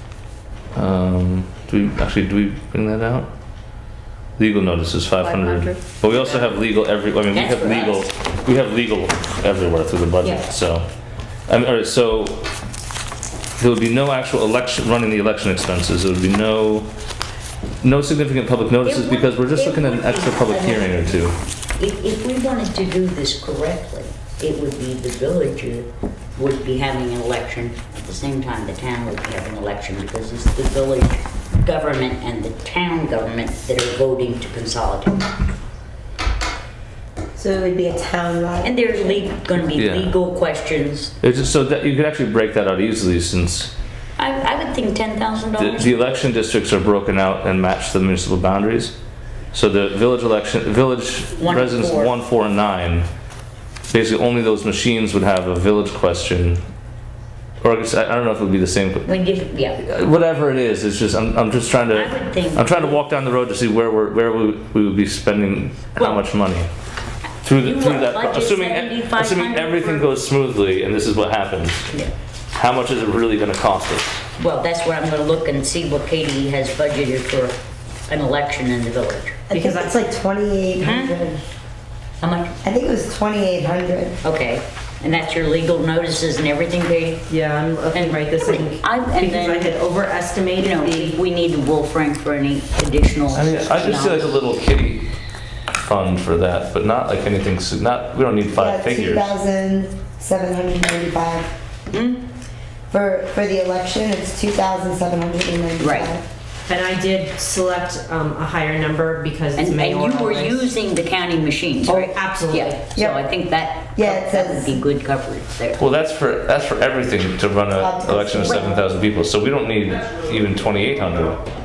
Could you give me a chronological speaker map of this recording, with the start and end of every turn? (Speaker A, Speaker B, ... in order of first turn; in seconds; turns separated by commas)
Speaker A: 0.8-3.3, Speaker A: 4.4-10.9, Speaker B: 5.3-5.7, Speaker C: 6.1-6.5, Speaker C: 7.3-8.1, Speaker A: 11.5-12.5, Speaker A: 13.6-16.9, Speaker A: 17.8-21.4, Speaker C: 18.9-35.3, Speaker D: 37.4-39.3, Speaker C: 38.6-41.1, Speaker A: 39.8-40.1, Speaker A: 41.2-43.7, Speaker C: 44.2-46.2, Speaker A: 45.6-49.0, Speaker A: 49.5-53.1, Speaker C: 51.4-52.2, Speaker A: 53.9-56.6, Speaker A: 57.6-59.1, Speaker C: 59.0-59.8, Speaker A: 59.8-66.7, Speaker C: 61.9-63.0, Speaker C: 66.0-66.2, Speaker A: 67.4-71.9, Speaker C: 67.6-70.1, Speaker A: 72.5-74.2, Speaker C: 74.4-79.4, Speaker D: 79.5-81.4, Speaker B: 79.5-79.9, Speaker C: 80.8-81.2, Speaker C: 82.2-82.5, Speaker D: 82.6-84.2, Speaker C: 84.2-87.2, Speaker B: 87.3-91.2, Speaker C: 87.9-89.7, Speaker C: 90.6-94.4, Speaker A: 93.3-95.1, Speaker A: 95.8-99.3, Speaker D: 98.6-101.5, Speaker C: 101.9-102.2, Speaker D: 102.9-106.2, Speaker C: 105.8-106.1, Speaker B: 106.7-110.7, Speaker C: 109.6-115.9, Speaker B: 111.8-112.8, Speaker D: 113.0-113.2, Speaker D: 114.0-114.8, Speaker A: 115.8-121.4, Speaker D: 117.8-118.8, Speaker C: 118.4-118.7